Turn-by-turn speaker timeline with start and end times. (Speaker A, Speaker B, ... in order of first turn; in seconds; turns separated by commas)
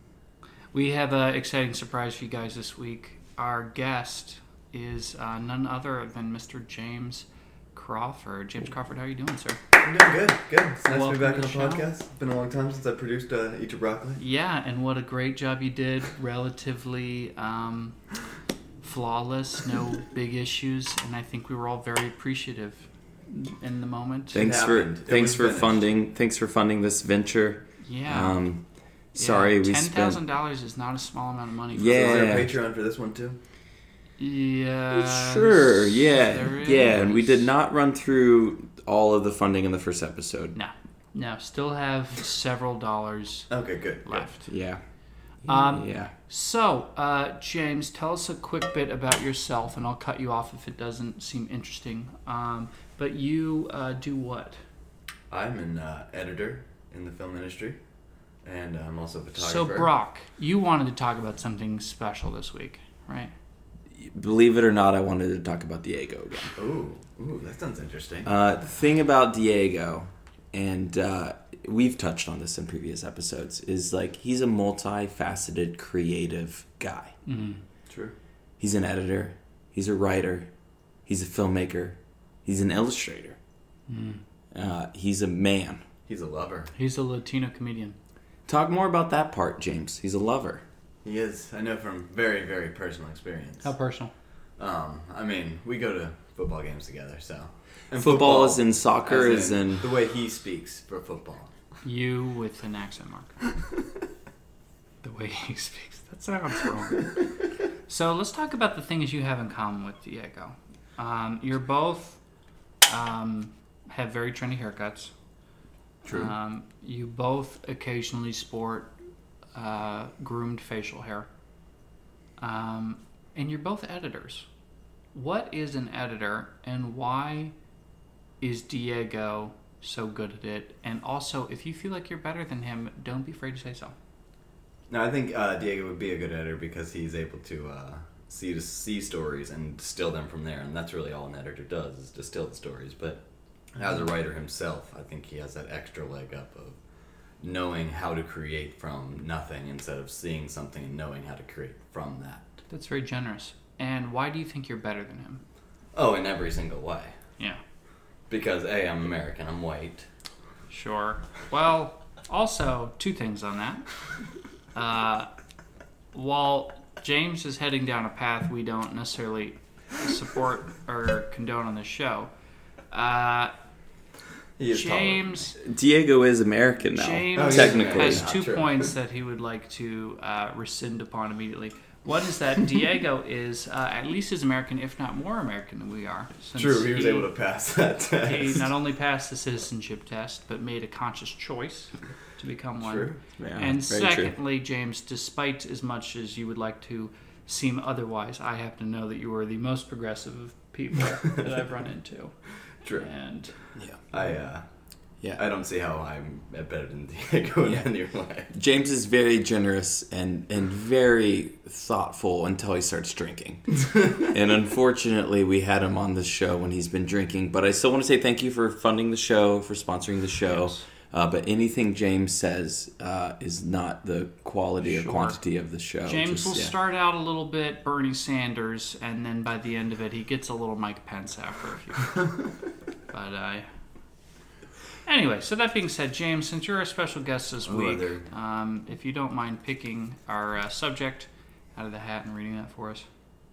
Speaker A: 0.7-9.6, Speaker B: 9.8-14.2, Speaker A: 10.8-11.8, Speaker A: 14.2-18.0, Speaker A: 18.8-24.5, Speaker C: 24.3-30.2, Speaker B: 24.3-25.9, Speaker A: 27.8-28.4, Speaker A: 29.1-32.4, Speaker C: 31.7-32.5, Speaker B: 31.9-33.4, Speaker A: 34.2-37.5, Speaker C: 34.9-40.5, Speaker A: 40.5-43.5, Speaker B: 43.5-44.3, Speaker A: 44.0-44.5, Speaker C: 44.5-44.8, Speaker C: 45.4-46.1, Speaker A: 45.4-54.6, Speaker B: 55.3-57.8, Speaker B: 58.4-59.9, Speaker A: 59.4-63.3, Speaker C: 63.9-66.5, Speaker B: 66.6-68.3, Speaker C: 68.2-77.1, Speaker A: 77.2-77.6, Speaker B: 77.9-78.1, Speaker C: 78.6-80.5, Speaker C: 81.0-83.4, Speaker A: 83.9-84.2, Speaker C: 84.5-85.8, Speaker B: 86.1-86.7, Speaker A: 86.7-88.0, Speaker C: 88.5-90.6, Speaker B: 91.0-93.7, Speaker A: 93.6-94.1, Speaker B: 94.6-101.8, Speaker C: 97.9-99.9, Speaker A: 101.8-103.4, Speaker A: 105.0-107.2, Speaker A: 107.8-112.2, Speaker A: 112.8-115.1, Speaker B: 116.0-116.3, Speaker A: 116.1-118.9, Speaker A: 119.5-121.3, Speaker A: 122.4-124.5, Speaker A: 125.1-127.5, Speaker A: 128.4-133.9, Speaker B: 134.9-143.2, Speaker B: 143.7-146.8, Speaker B: 147.4-152.5, Speaker A: 152.7-155.4, Speaker B: 155.9-157.2, Speaker B: 158.3-160.1, Speaker A: 160.7-163.8, Speaker A: 164.7-165.3, Speaker A: 166.1-172.3, Speaker A: 172.9-173.5, Speaker B: 174.6-175.4, Speaker A: 174.7-175.6, Speaker C: 175.6-178.3, Speaker A: 176.8-187.3, Speaker B: 177.3-178.9, Speaker B: 186.5-188.7, Speaker A: 188.2-203.6, Speaker B: 192.8-193.2, Speaker C: 193.4-194.3, Speaker B: 202.8-203.1, Speaker C: 203.8-204.0, Speaker B: 204.0-204.6, Speaker B: 205.2-208.5, Speaker C: 208.5-226.7, Speaker A: 220.4-220.8, Speaker A: 224.8-225.4, Speaker A: 226.0-232.2, Speaker A: 233.1-233.7, Speaker A: 235.0-243.0, Speaker B: 237.6-238.3